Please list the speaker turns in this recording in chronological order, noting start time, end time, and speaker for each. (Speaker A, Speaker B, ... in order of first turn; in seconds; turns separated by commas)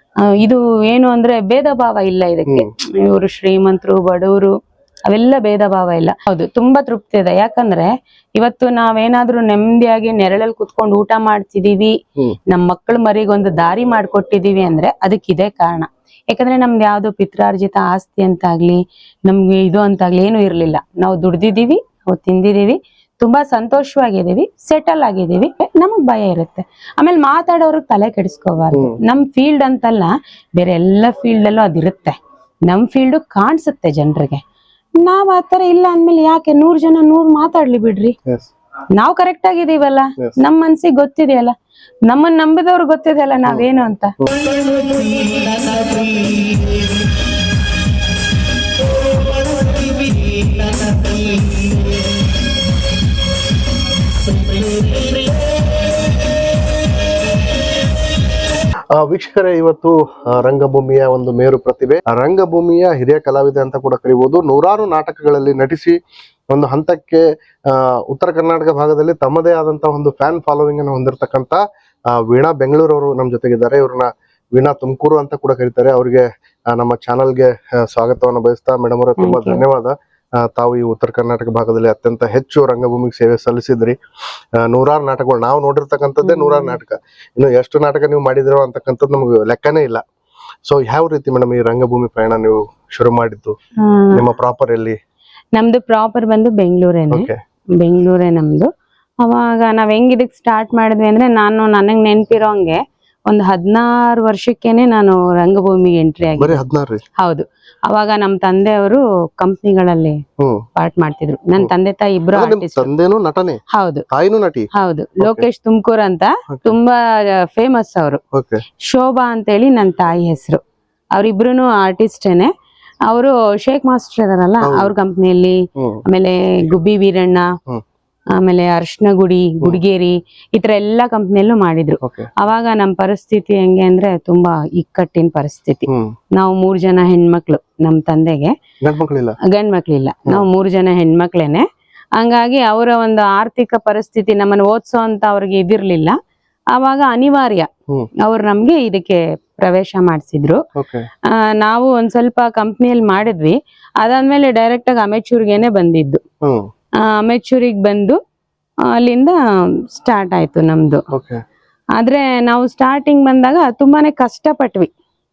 Speaker A: 0.2-4.5, Speaker A: 5.1-12.0, Speaker A: 12.5-34.4, Speaker B: 28.7-29.0, Speaker A: 35.0-38.2, Speaker A: 39.0-41.5, Speaker A: 42.1-44.1, Speaker B: 44.2-44.6, Speaker B: 58.9-66.0, Speaker B: 66.5-84.0, Speaker A: 79.2-79.6, Speaker B: 84.6-90.0, Speaker A: 86.2-86.8, Speaker B: 90.7-93.6, Speaker A: 93.8-94.2, Speaker B: 94.1-95.0, Speaker A: 95.6-106.6, Speaker B: 97.1-97.4, Speaker B: 106.4-107.0, Speaker A: 107.2-110.2, Speaker B: 110.4-110.7, Speaker A: 110.8-112.9, Speaker B: 112.3-115.5, Speaker A: 113.7-114.0, Speaker A: 114.7-118.2, Speaker B: 118.3-118.6, Speaker A: 118.8-120.6, Speaker A: 121.1-122.5, Speaker A: 123.1-127.5, Speaker B: 124.6-124.9, Speaker B: 125.8-126.0, Speaker A: 128.3-138.6, Speaker B: 132.0-132.3, Speaker B: 135.9-136.1, Speaker B: 138.8-139.4, Speaker A: 139.4-146.2, Speaker A: 146.7-147.7, Speaker A: 148.2-150.7, Speaker B: 150.8-151.1, Speaker A: 151.3-156.2, Speaker B: 156.4-156.7, Speaker A: 157.0-158.2, Speaker A: 158.9-161.1, Speaker B: 161.1-161.4, Speaker A: 162.0-164.9